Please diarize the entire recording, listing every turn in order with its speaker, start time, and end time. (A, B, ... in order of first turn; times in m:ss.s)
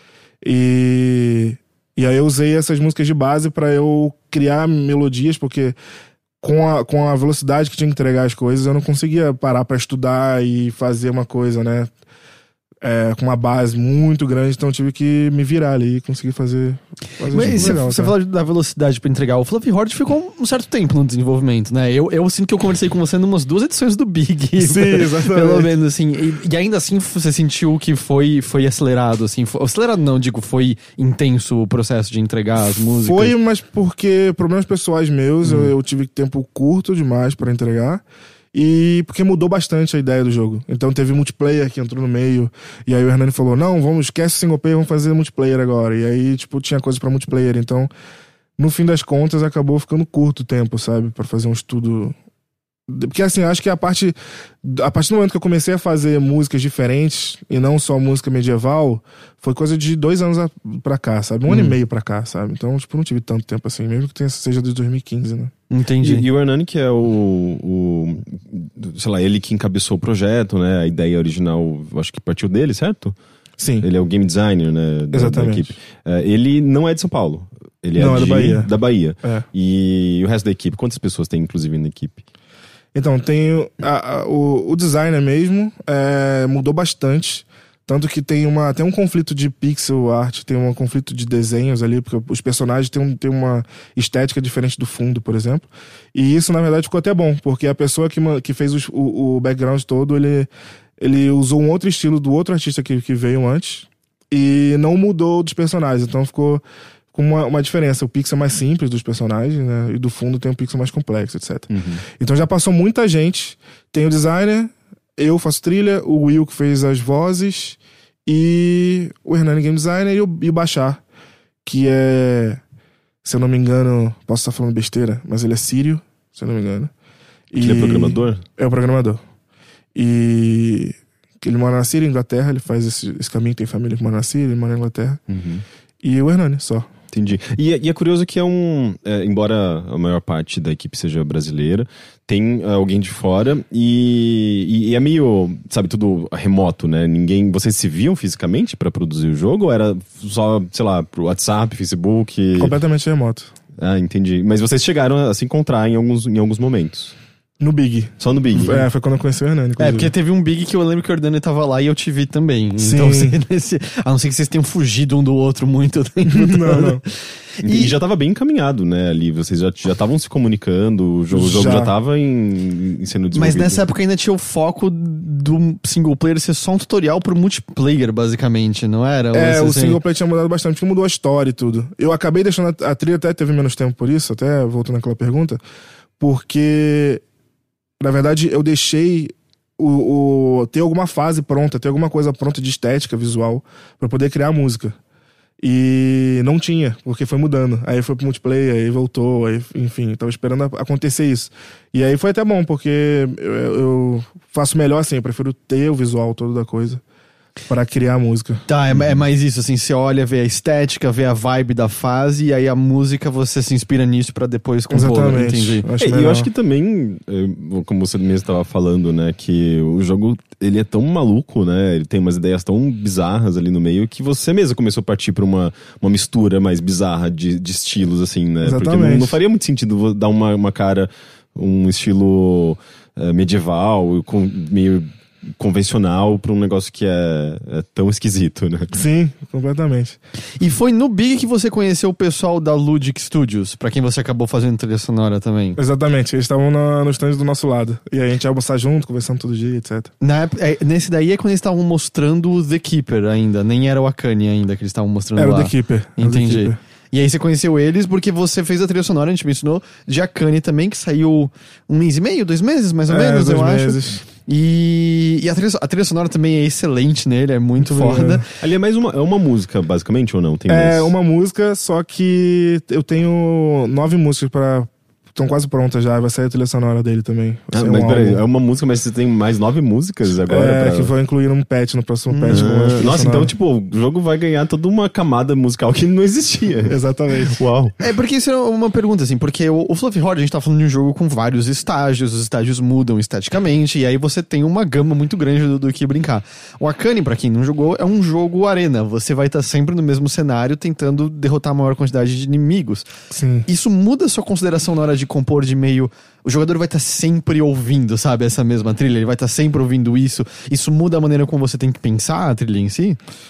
0:00.4-0:05.8 A
0:06.4-0:11.9 A
0:12.8-0:18.1 A
0:17.3-0:33.3 B
0:24.6-0:25.7 A
0:32.8-0:38.0 A
0:35.4-0:35.7 B
0:38.5-0:47.9 A
0:48.6-0:52.2 A
0:52.9-1:05.5 A
1:01.5-1:01.8 B
1:05.7-1:06.2 B
1:06.0-1:13.2 C
1:13.6-1:13.9 A
1:13.8-1:22.2 C
1:15.1-1:15.7 A
1:18.0-1:18.7 A
1:22.9-1:46.6 A
1:47.1-2:01.0 A
1:51.7-1:52.0 C
2:01.6-2:02.6 A
2:03.2-2:06.9 A
2:07.5-2:09.2 A
2:07.6-2:08.4 C
2:10.0-2:15.2 A
2:15.3-2:15.6 C
2:16.0-2:16.9 A
2:17.1-2:32.8 C
2:32.6-2:33.5 A
2:33.8-2:37.2 C
2:37.6-2:40.1 A
2:38.2-2:38.8 C
2:39.8-2:47.1 B
2:42.8-2:43.4 A
2:46.3-2:47.0 A
2:47.6-2:53.8 C
2:47.6-2:47.9 B
2:51.3-2:51.9 A
2:53.3-3:00.0 B
2:59.3-3:05.6 A
3:06.2-3:07.2 A
3:08.0-3:15.0 A
3:15.6-3:27.0 A
3:27.7-3:28.6 A
3:28.7-3:35.9 B
3:34.9-3:36.5 A
3:36.0-3:58.9 C
3:48.6-3:49.4 A
3:58.9-4:00.2 A
4:00.6-4:05.8 B
4:05.8-4:10.1 A
4:10.2-4:28.4 B
4:15.4-4:16.8 A
4:23.1-4:24.2 A
4:27.8-4:28.4 A
4:28.6-4:31.1 C
4:30.7-4:38.4 A
4:37.7-4:41.1 C
4:40.5-4:43.5 A
4:42.5-4:47.0 C
4:46.9-4:47.6 A
4:47.5-4:48.0 C
4:48.0-5:03.1 B
5:03.3-5:03.7 A
5:03.7-5:13.2 B